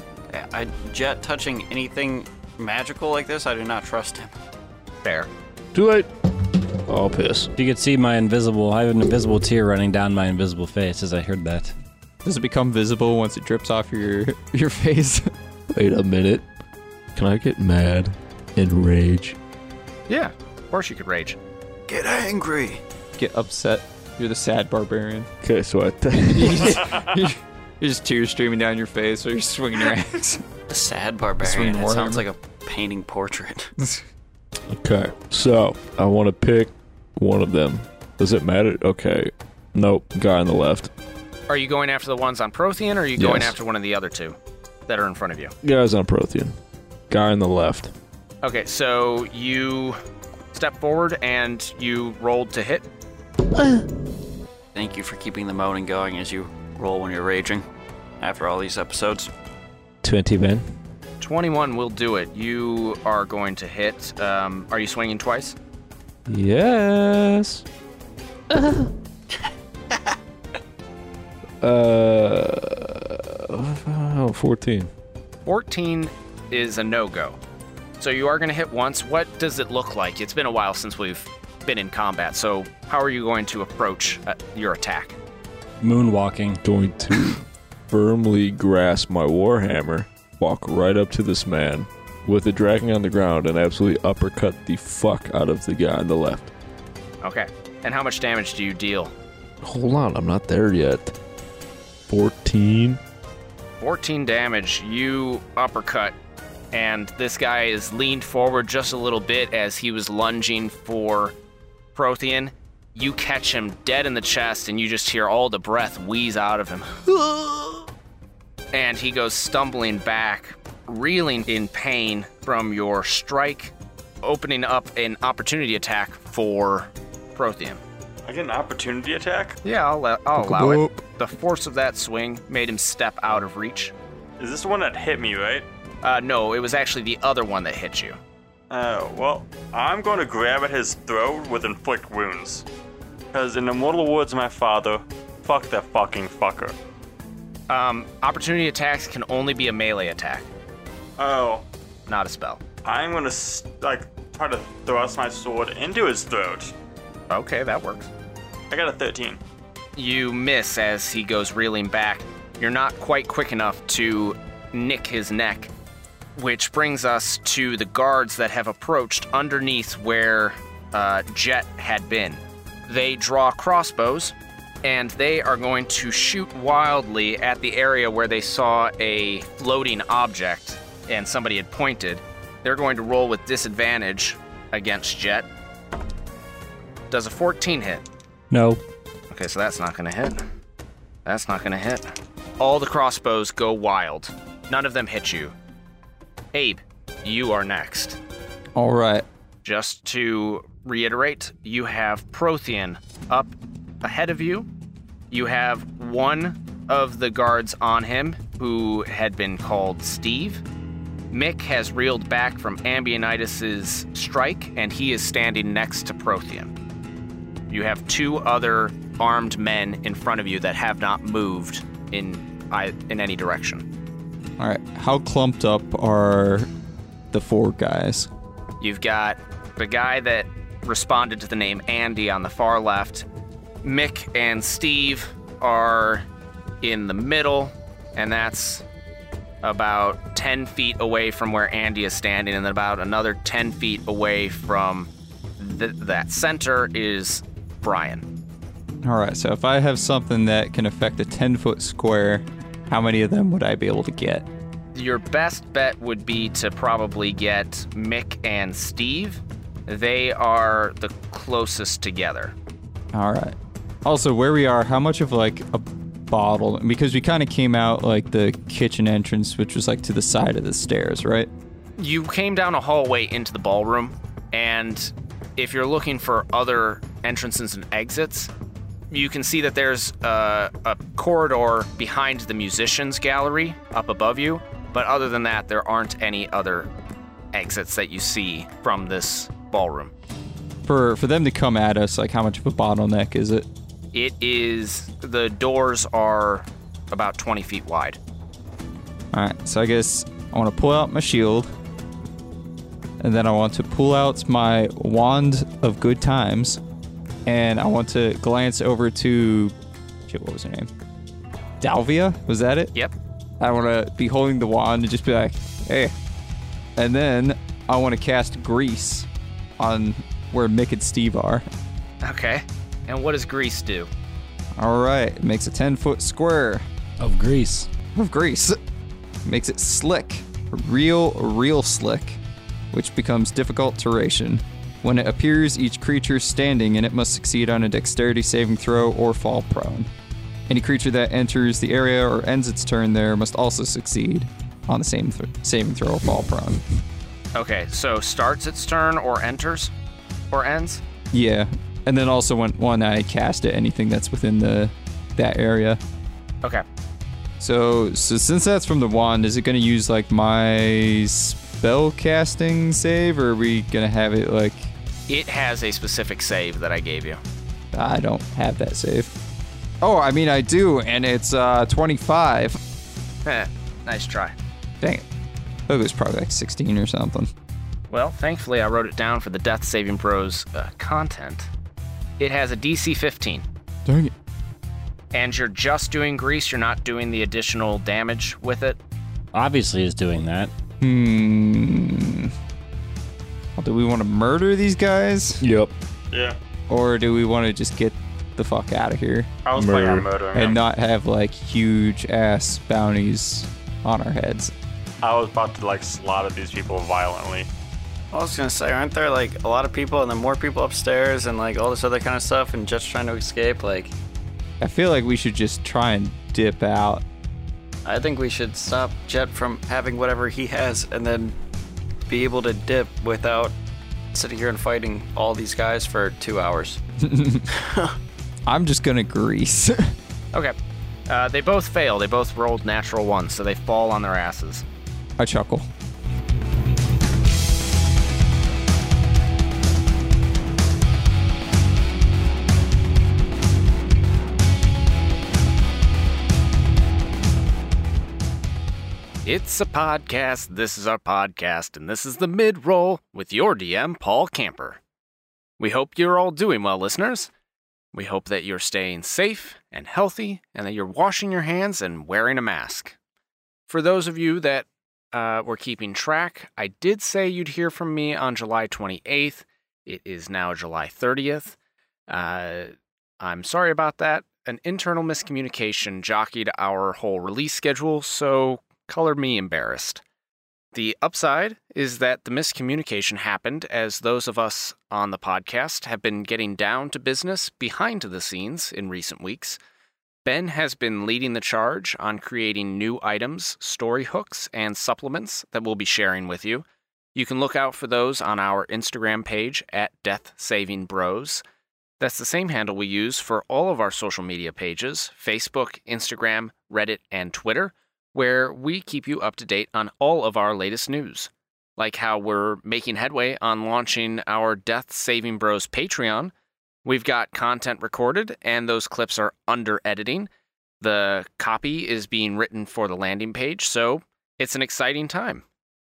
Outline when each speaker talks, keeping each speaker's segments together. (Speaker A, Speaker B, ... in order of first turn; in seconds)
Speaker A: 0.3-4.3, 21.9-22.8, 30.7-33.7, 54.7-57.7, 58.2-59.3, 408.3-414.1, 418.1-421.6, 422.3-423.8, 424.3-427.0, 427.7-428.1
Speaker B: 5.0-5.3, 20.1-21.4, 41.5-45.5, 48.4-50.0, 50.5-52.9, 61.2-65.6, 75.5-77.4, 78.0-85.2, 97.2-99.1, 103.8-106.2, 106.7-111.3, 112.0-117.8, 118.7-127.8, 129.6-133.9, 136.0-138.2, 147.7-150.5, 152.1-152.6, 157.3-158.1, 160.0-165.7, 166.4-185.5, 187.1-188.1, 189.3-190.4, 191.2-195.6, 196.5-198.2, 199.6-204.7, 205.3-210.6, 211.3-216.7, 217.7-223.8, 228.8-233.3, 233.8-236.2, 236.8-238.8, 239.6-248.3, 254.9-262.6, 272.0-278.5, 279.1-286.9, 287.5-290.1, 294.1-298.2, 322.2-324.1, 347.6-349.9, 350.5-351.0, 365.3-367.4, 373.4-374.6, 378.1-381.7, 382.4-383.6, 385.3-389.0, 431.3-434.8, 449.4-455.0, 455.8-457.5, 458.1-463.2, 463.9-471.8, 472.3-480.2, 480.9-489.8, 490.4-501.6, 502.2-516.5, 517.0-520.5, 521.0-525.6
Speaker C: 5.7-6.1, 6.9-7.5, 15.7-16.5, 17.1-19.4, 25.4-26.8, 34.7-40.9, 43.2-43.5, 45.6-46.5, 47.1-47.9, 60.0-60.7, 66.3-67.6, 68.5-68.9, 71.6-74.9, 86.6-96.5, 99.6-101.1, 102.1-103.0, 395.6-395.9, 399.8-400.4
Speaker D: 7.6-11.7, 85.8-86.6, 188.5-188.8, 327.2-327.9, 389.5-390.7
Speaker E: 12.2-15.3, 23.2-25.3, 26.3-30.4, 31.4-32.2, 130.4-131.0, 198.8-199.2, 224.6-226.7, 227.3-228.3, 249.0-254.5, 263.1-271.5, 290.9-293.7, 299.3-301.7, 303.2-306.8, 307.5-309.8, 310.3-310.9, 311.8-312.9, 313.6-316.1, 317.0-319.3, 319.8-321.7, 324.8-326.9, 328.1-328.8, 329.4-332.4, 332.9-340.1, 340.7-346.8, 351.3-356.0, 357.6-364.9, 367.9-369.3, 370.0-372.8, 375.9-377.5, 384.1-384.3, 391.0-392.5, 393.8-395.6, 396.9-399.5, 400.5-404.7, 414.8-417.2, 427.2-427.7, 428.7-430.1, 435.4-435.9
Speaker F: 26.8-27.1, 128.3-129.6, 134.4-135.7, 138.7-142.7, 143.3-146.8, 151.2-151.7, 152.8-156.7, 158.7-159.4, 399.6-400.8, 405.2-407.7